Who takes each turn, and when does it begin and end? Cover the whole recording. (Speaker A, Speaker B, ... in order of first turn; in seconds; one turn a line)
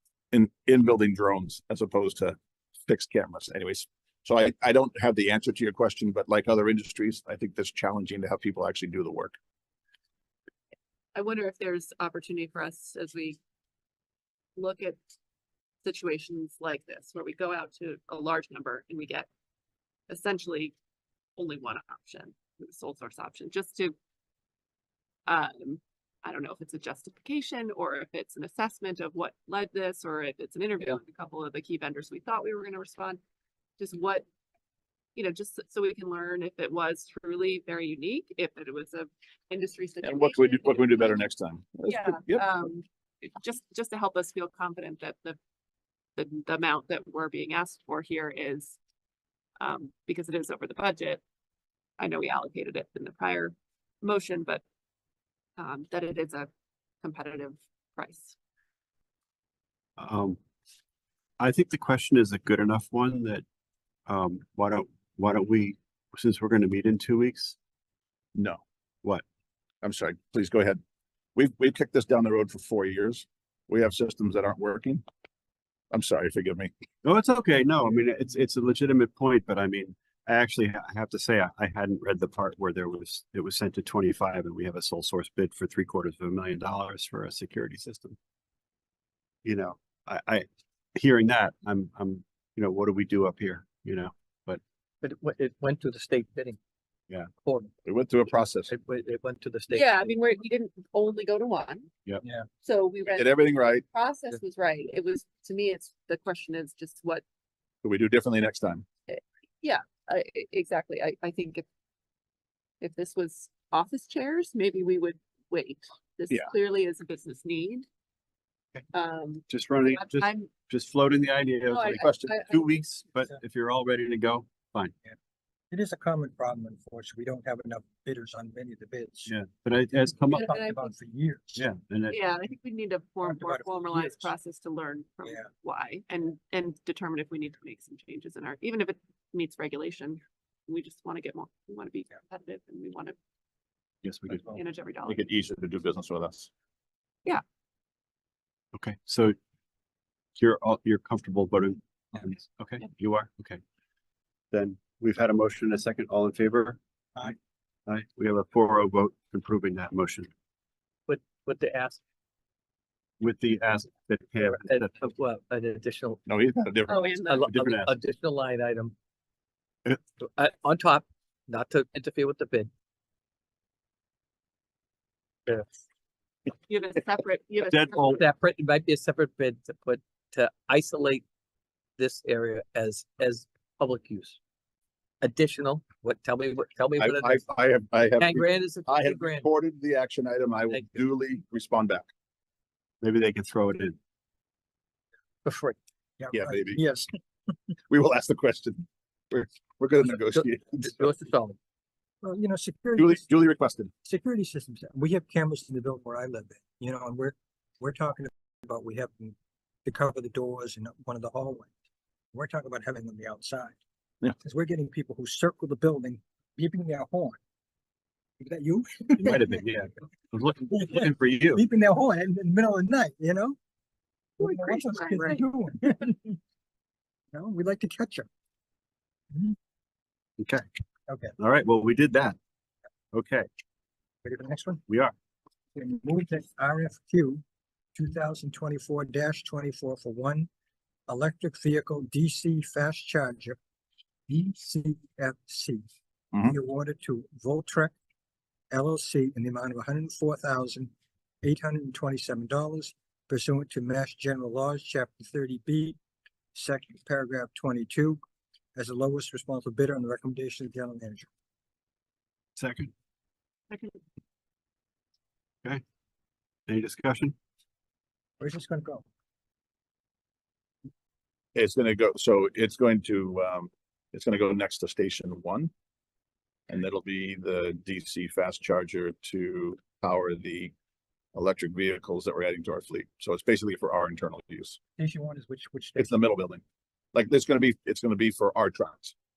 Speaker A: 0.3-9.3
Speaker B: 11.1-13.4
Speaker B: 14.6-15.0
Speaker B: 15.8-19.3
Speaker B: 20.1-20.7
Speaker B: 21.4-23.9
Speaker B: 25.3-33.2
Speaker B: 33.8-34.2
Speaker B: 35.1-41.2
Speaker A: 40.0-42.4
Speaker B: 41.8-45.4
Speaker B: 46.1-48.8
Speaker B: 49.6-51.2
Speaker B: 52.0-54.6
Speaker B: 55.6-56.5
Speaker B: 57.0-58.4
Speaker C: 60.0-60.4
Speaker C: 61.4-63.4
Speaker C: 64.1-67.6
Speaker A: 68.3-68.6
Speaker A: 69.8-70.8
Speaker A: 71.3-75.0
Speaker A: 75.9-76.7
Speaker C: 77.0-88.2
Speaker C: 89.4-94.6
Speaker D: 95.0-96.6
Speaker D: 97.4-97.7
Speaker A: 97.8-98.7
Speaker D: 98.7-100.1
Speaker B: 99.7-101.9
Speaker B: 102.6-107.2
Speaker A: 103.1-103.8
Speaker A: 107.8-108.8
Speaker B: 109.1-111.6
Speaker B: 112.8-117.8
Speaker B: 118.9-120.5
Speaker C: 119.5-124.9
Speaker B: 121.7-122.7
Speaker A: 122.0-122.3
Speaker E: 125.7-129.3
Speaker C: 129.3-130.5
Speaker B: 130.3-130.9
Speaker E: 130.3-131.6
Speaker C: 131.6-132.2
Speaker B: 132.1-143.1
Speaker E: 133.2-134.3
Speaker C: 144.0-144.5
Speaker B: 144.5-145.2
Speaker A: 145.1-146.5
Speaker C: 148.7-149.3
Speaker C: 150.4-153.6
Speaker C: 154.5-157.3
Speaker C: 157.9-160.3
Speaker D: 161.1-162.0
Speaker C: 163.2-164.9
Speaker D: 164.5-166.2
Speaker A: 166.3-167.2
Speaker B: 166.8-167.5
Speaker D: 167.3-168.9
Speaker C: 167.5-167.9
Speaker D: 169.9-172.7
Speaker D: 175.5-175.7
Speaker B: 176.6-178.2
Speaker C: 177.7-178.1
Speaker D: 178.0-181.2
Speaker D: 182.0-184.4
Speaker D: 185.2-187.5
Speaker A: 187.0-192.1
Speaker D: 188.2-189.5
Speaker D: 190.7-191.0
Speaker C: 193.0-194.0
Speaker D: 195.4-195.8
Speaker E: 196.2-197.1
Speaker A: 196.3-196.8
Speaker A: 197.9-201.1
Speaker D: 200.3-201.6
Speaker E: 202.2-203.3
Speaker A: 203.0-203.9
Speaker E: 204.0-211.7
Speaker E: 212.3-213.8
Speaker E: 214.3-217.4
Speaker E: 218.4-219.6
Speaker C: 219.1-221.6
Speaker E: 221.5-223.6
Speaker B: 224.4-225.4
Speaker E: 224.4-226.4
Speaker E: 227.3-228.3
Speaker C: 230.4-230.6
Speaker E: 231.1-231.3
Speaker C: 231.4-232.4
Speaker C: 233.1-233.5
Speaker E: 234.2-234.8
Speaker C: 234.9-235.1
Speaker E: 235.7-237.4
Speaker E: 237.9-240.5
Speaker E: 241.1-243.6
Speaker E: 244.3-245.8
Speaker E: 246.4-247.9
Speaker E: 248.7-250.9
Speaker E: 251.4-256.0
Speaker E: 256.5-258.2
Speaker E: 258.7-261.3
Speaker C: 262.6-262.9
Speaker B: 263.7-264.0
Speaker C: 266.7-267.3
Speaker E: 268.4-269.0
Speaker A: 271.5-275.7
Speaker A: 276.7-280.7
Speaker A: 281.3-284.8
Speaker E: 285.0-286.1
Speaker A: 286.0-286.6
Speaker A: 287.1-289.1